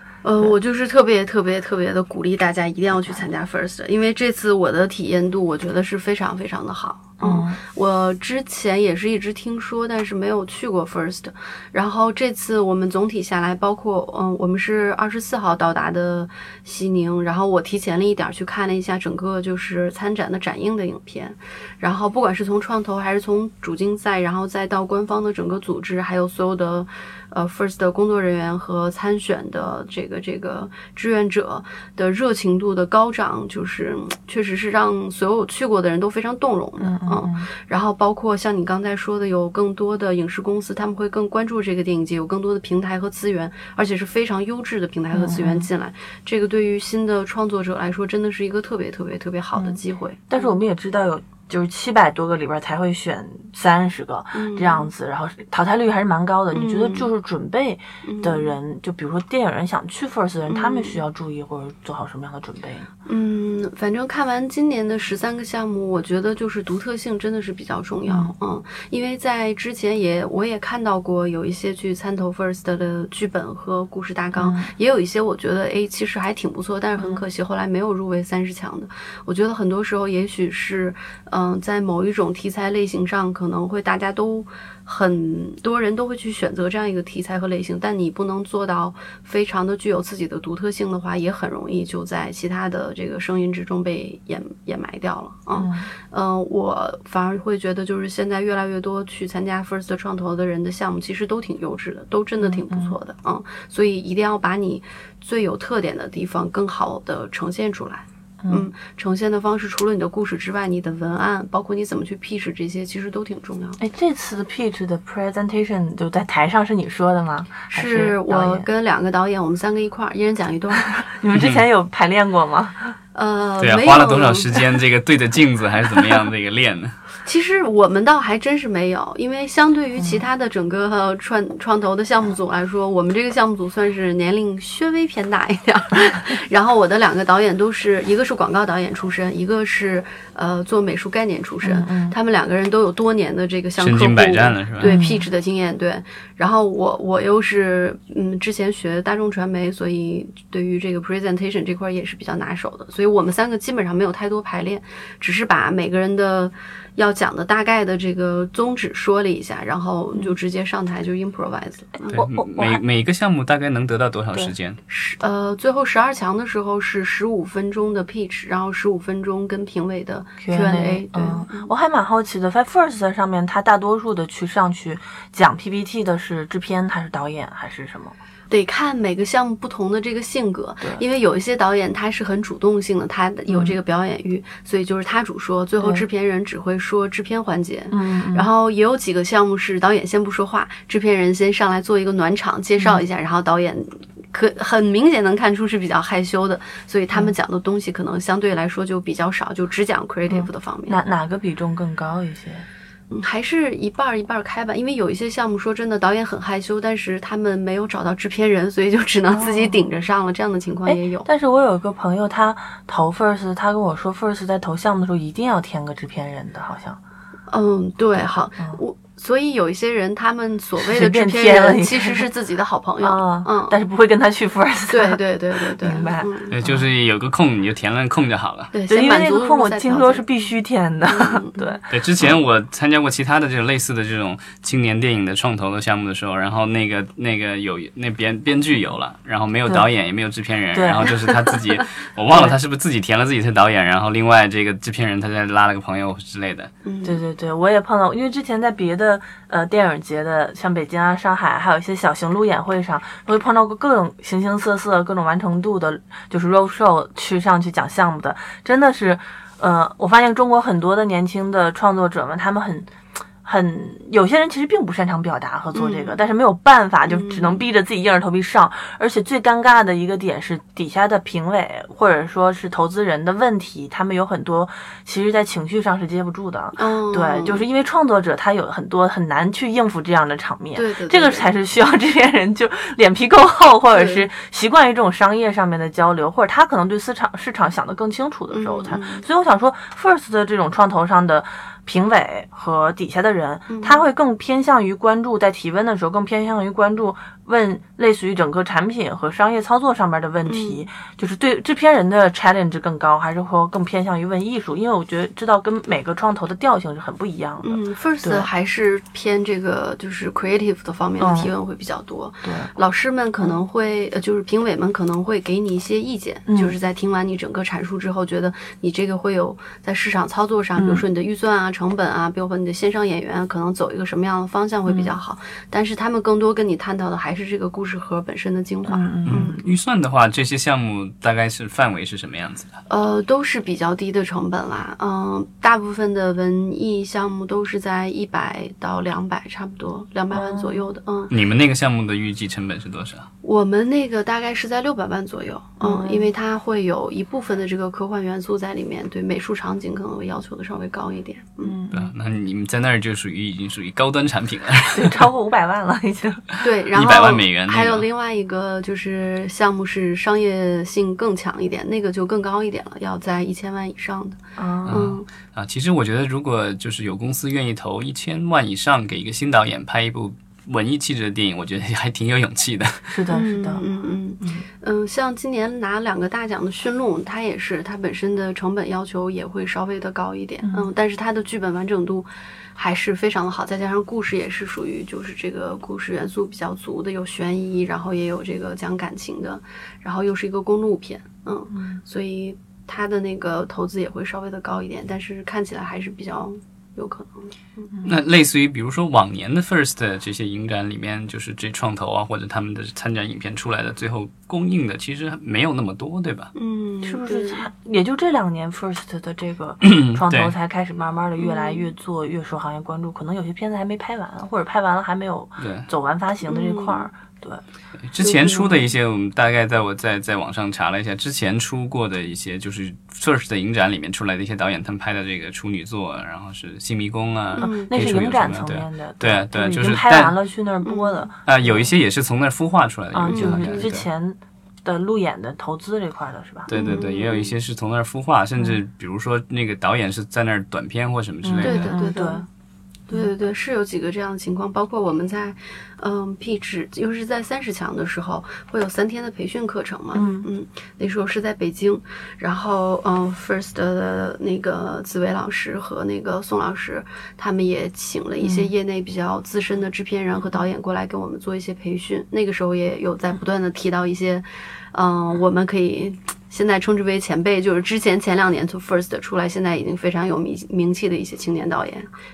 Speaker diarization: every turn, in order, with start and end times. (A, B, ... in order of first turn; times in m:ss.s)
0:00.2-0:50.4 A
0:07.2-0:07.6 B
0:36.8-0:37.5 B
0:45.1-0:45.7 B
0:50.3-1:02.9 B
0:54.3-0:54.9 A
0:56.5-0:57.1 A
0:58.0-0:58.5 A
1:00.5-1:01.0 A
1:03.1-1:53.8 A
1:08.1-1:08.3 B
1:14.3-1:14.7 B
1:17.0-1:17.2 B
1:35.5-1:35.9 B
1:42.4-1:43.0 B
1:48.4-1:48.7 B
1:53.8-1:58.7 B
1:57.7-2:01.1 A
2:01.0-2:02.9 B
2:01.3-2:01.6 C
2:03.1-2:04.6 A
2:03.6-2:07.0 C
2:07.2-2:42.2 A
2:10.0-2:10.2 B
2:21.6-2:22.2 B
2:23.8-2:24.9 C
2:24.8-2:25.3 B
2:42.0-2:42.8 B
2:42.1-2:44.8 C
2:44.9-2:51.7 A
2:50.4-2:58.2 B
2:58.5-3:21.0 A
3:03.5-3:03.8 B
3:05.8-3:06.0 B
3:07.9-3:08.5 B
3:12.8-3:13.0 B
3:20.3-3:22.6 B
3:23.1-3:31.3 A
3:29.3-3:29.8 B
3:30.8-3:37.0 B
3:37.5-3:43.8 A
3:40.8-3:42.3 B
3:43.0-3:46.8 B
3:44.9-3:46.5 A
3:46.5-3:48.7 C
3:48.7-3:50.2 A
3:48.9-3:51.9 B
3:51.0-3:51.8 A
3:51.9-4:06.7 C
4:00.7-4:01.1 B
4:06.8-4:07.2 A
4:07.0-5:08.5 B
4:25.7-4:26.2 A
4:27.1-4:27.6 A
4:36.8-4:37.6 A
4:40.7-4:41.5 A
4:43.9-4:44.3 A
4:48.5-4:49.2 A
4:53.7-4:54.0 A
5:00.4-5:00.8 A
5:07.6-5:29.6 A
5:11.2-5:11.5 B
5:12.4-5:12.7 B
5:16.5-5:16.8 B
5:20.8-5:21.0 B
5:24.9-5:25.1 B
5:28.9-5:29.6 B
5:29.2-5:32.7 C
5:32.9-5:41.3 A
5:40.3-5:40.8 B
5:41.3-5:43.3 C
5:43.4-5:51.8 A
5:45.8-5:46.3 B
5:51.6-5:52.1 B
5:51.9-5:55.2 C
5:54.9-5:56.4 B
5:56.6-6:05.2 A
5:56.9-5:58.0 C
6:04.6-6:05.0 B
6:04.8-6:13.1 C
6:13.1-6:13.8 B
6:13.3-6:37.9 A
6:20.6-6:20.9 B
6:31.7-6:32.0 B
6:38.0-6:46.5 C
6:46.5-6:47.7 A
6:47.0-6:57.6 B
6:49.8-6:50.5 C
6:51.4-6:51.9 A
6:55.6-6:55.9 C
6:56.4-6:57.1 A
6:58.0-7:10.3 C
6:58.2-6:58.7 A
7:07.6-7:07.9 A
7:07.6-7:11.9 B
7:10.8-7:11.3 A
7:11.5-7:14.0 C
7:13.1-7:16.7 B
7:13.3-7:13.8 A
7:16.7-7:21.9 C
7:16.7-7:17.5 A
7:21.4-7:22.4 B
7:21.6-7:22.5 A
7:23.1-7:52.1 A
7:30.1-7:30.5 B
7:38.4-7:38.7 B